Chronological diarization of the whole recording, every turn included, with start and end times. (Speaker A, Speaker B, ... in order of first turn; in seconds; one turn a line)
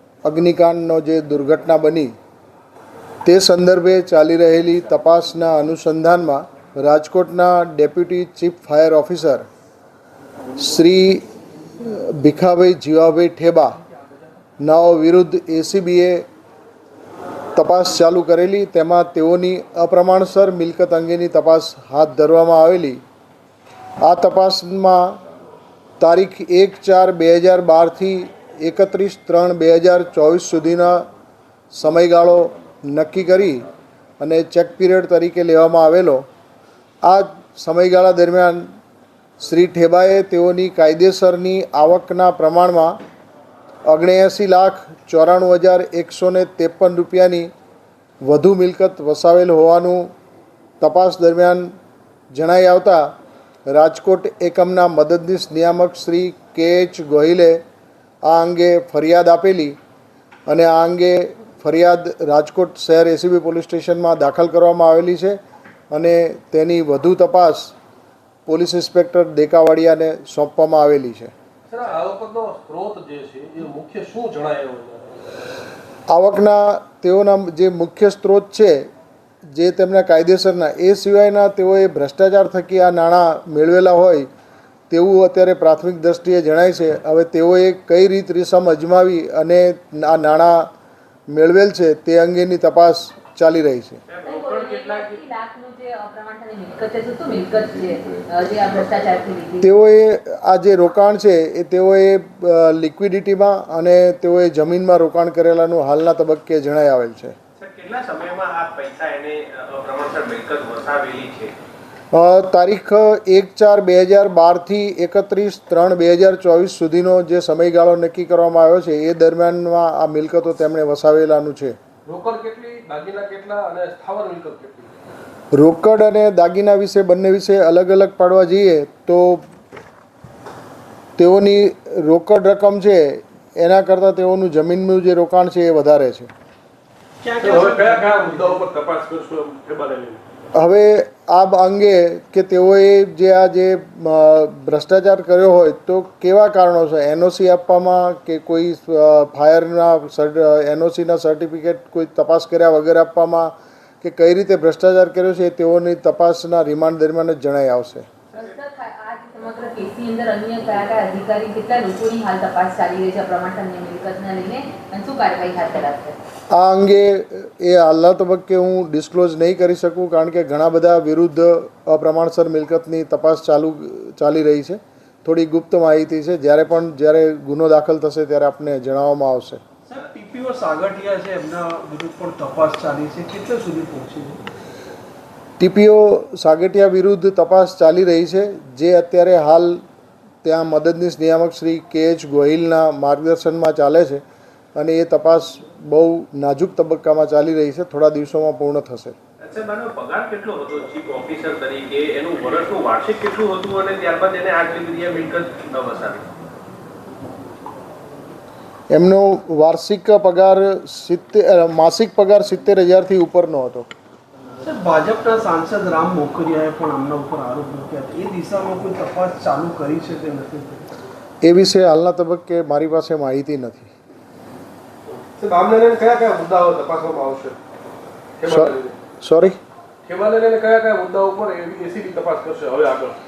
Speaker A: 0.2-2.1
Speaker A: 3.2-9.5
Speaker A: 10.6-11.3
Speaker A: 11.8-13.8
Speaker A: 14.6-16.3
Speaker A: 17.6-23.0
Speaker A: 24.0-25.2
Speaker A: 26.0-31.1
Speaker A: 31.7-33.7
Speaker A: 34.2-36.3
Speaker A: 37.0-38.7
Speaker A: 39.4-43.0
Speaker A: 43.9-47.5
Speaker A: 48.3-50.1
Speaker A: 50.8-51.7
Speaker A: 52.3-53.1
Speaker A: 53.7-57.6
Speaker A: 58.2-59.8
Speaker A: 60.5-65.4
Speaker A: 65.9-67.8
Speaker A: 68.5-71.3
Speaker B: 71.7-75.2
Speaker A: 76.1-78.9
Speaker A: 79.5-84.3
Speaker A: 84.9-90.7
Speaker A: 91.3-94.0
Speaker C: 94.1-95.2
Speaker D: 94.2-99.7
Speaker A: 99.6-107.4
Speaker C: 107.6-111.5
Speaker A: 112.1-121.8
Speaker B: 122.1-124.9
Speaker A: 125.5-129.4
Speaker A: 131.2-136.3
Speaker E: 137.2-138.7
Speaker B: 137.4-140.2
Speaker A: 140.6-158.1
Speaker D: 158.3-166.2
Speaker A: 166.5-179.6
Speaker E: 179.9-184.4
Speaker A: 185.6-189.8
Speaker A: 190.4-194.2
Speaker A: 194.8-199.2
Speaker C: 199.4-206.3
Speaker A: 208.9-213.9
Speaker E: 214.6-220.9
Speaker A: 221.4-223.9
Speaker B: 225.1-227.6
Speaker B: 228.4-229.0
Speaker A: 228.5-229.6
Speaker B: 230.1-233.2